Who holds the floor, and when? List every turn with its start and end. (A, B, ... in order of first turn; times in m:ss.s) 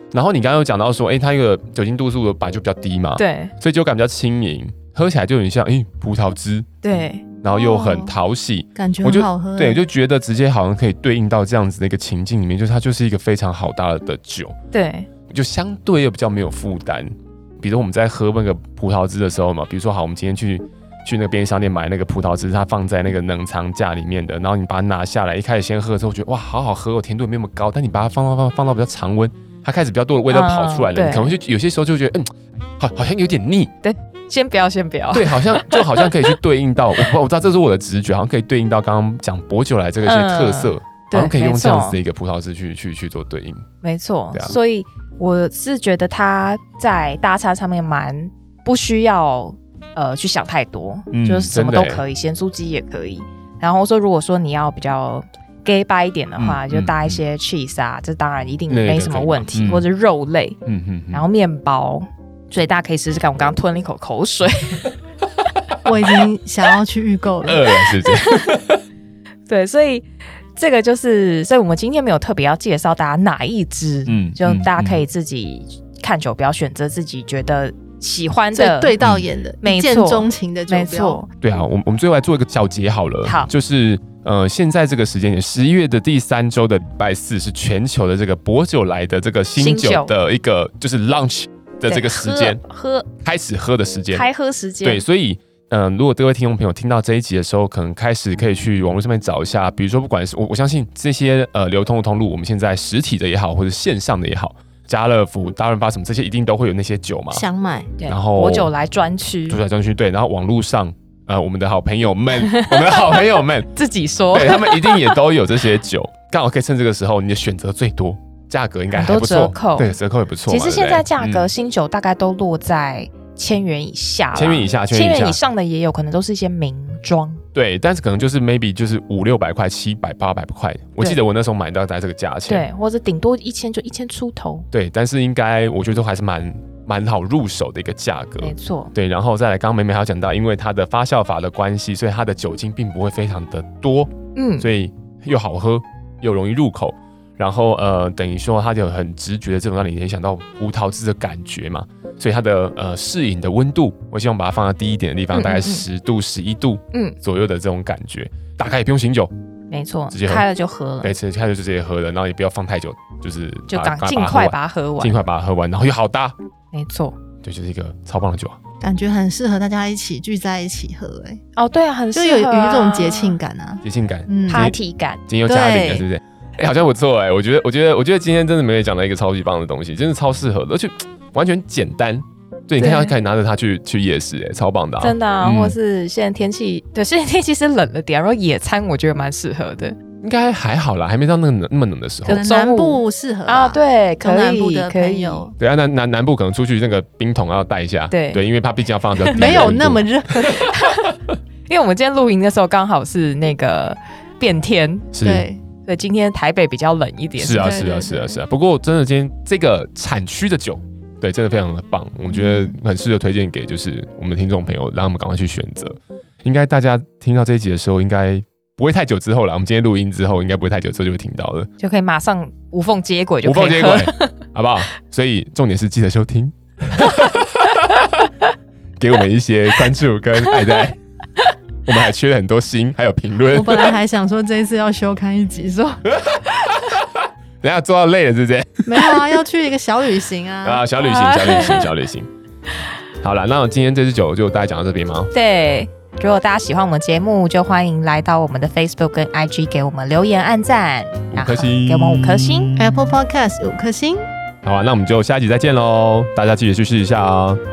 0:00.1-0:06.7 A
0:03.2-0:03.5 B
0:06.8-0:07.2 B
0:07.4-0:14.5 A
0:07.5-0:08.1 C
0:08.8-0:09.8 C
0:14.7-0:15.1 B
0:15.3-0:33.7 A
0:30.3-0:31.3 B
0:33.8-0:35.8 B
0:35.1-0:43.6 A
0:40.0-0:42.0 B
0:43.8-1:00.6 B
0:51.1-0:52.0 A
0:56.4-0:57.2 A
0:58.7-0:59.8 A
1:00.6-1:01.2 A
1:01.1-1:04.9 B
1:05.8-1:07.6 C
1:07.4-1:08.8 A
1:08.1-1:08.5 B
1:09.5-1:18.9 B
1:14.1-1:15.0 A
1:18.5-1:21.2 C
1:19.0-1:19.2 A
1:19.6-1:21.3 B
1:21.4-1:32.6 A
1:23.2-1:23.5 B
1:29.6-1:30.1 B
1:31.9-1:33.1 B
1:33.2-1:34.2 A
1:34.1-1:35.0 B
1:34.8-1:47.4 A
1:47.3-1:47.9 C
1:48.0-1:49.6 B
1:48.1-1:48.7 A
1:49.5-1:53.7 A
1:52.4-1:53.2 B
1:53.7-1:55.2 B
1:54.3-2:01.5 A
1:58.9-2:00.0 B
2:00.5-2:07.4 B
2:04.4-2:05.4 A
2:07.5-2:12.7 A
2:12.5-2:14.7 B
2:14.7-2:39.3 A
2:18.4-2:18.9 B
2:24.4-2:24.7 B
2:35.3-2:35.8 B
2:39.7-2:41.1 B
2:40.1-2:40.4 A
2:41.0-2:46.4 A
2:43.7-2:45.2 B
2:46.7-2:47.2 B
2:47.4-2:48.6 A
2:48.8-2:51.4 C
2:51.6-2:53.4 B
2:52.1-2:54.7 C
2:53.8-2:54.8 A
2:54.5-2:55.2 B
2:55.3-3:05.8 A
2:55.4-2:56.0 C
3:02.8-3:03.1 B
3:05.0-3:10.0 B
3:10.2-3:12.4 A
3:12.2-3:15.5 B
3:12.3-3:15.5 C
3:15.6-3:21.2 A
3:18.1-3:18.4 B
3:19.2-3:19.7 B
3:19.3-3:20.7 C
3:20.4-3:21.1 B
3:21.7-3:25.1 B
3:25.1-3:25.4 A
3:25.2-3:25.6 C
3:25.9-3:28.4 B
3:27.4-3:41.7 A
3:41.8-3:44.4 B
3:43.4-3:48.3 A
3:49.0-3:51.0 A
3:51.8-3:54.0 A
3:53.5-3:56.0 C
3:56.1-3:59.4 A
3:58.9-4:00.8 C
4:00.6-4:02.3 A
4:01.0-4:01.9 B
4:03.2-4:05.3 A
4:05.3-4:12.7 B
4:11.3-4:13.1 A
4:12.8-4:14.2 C
4:14.6-4:17.6 A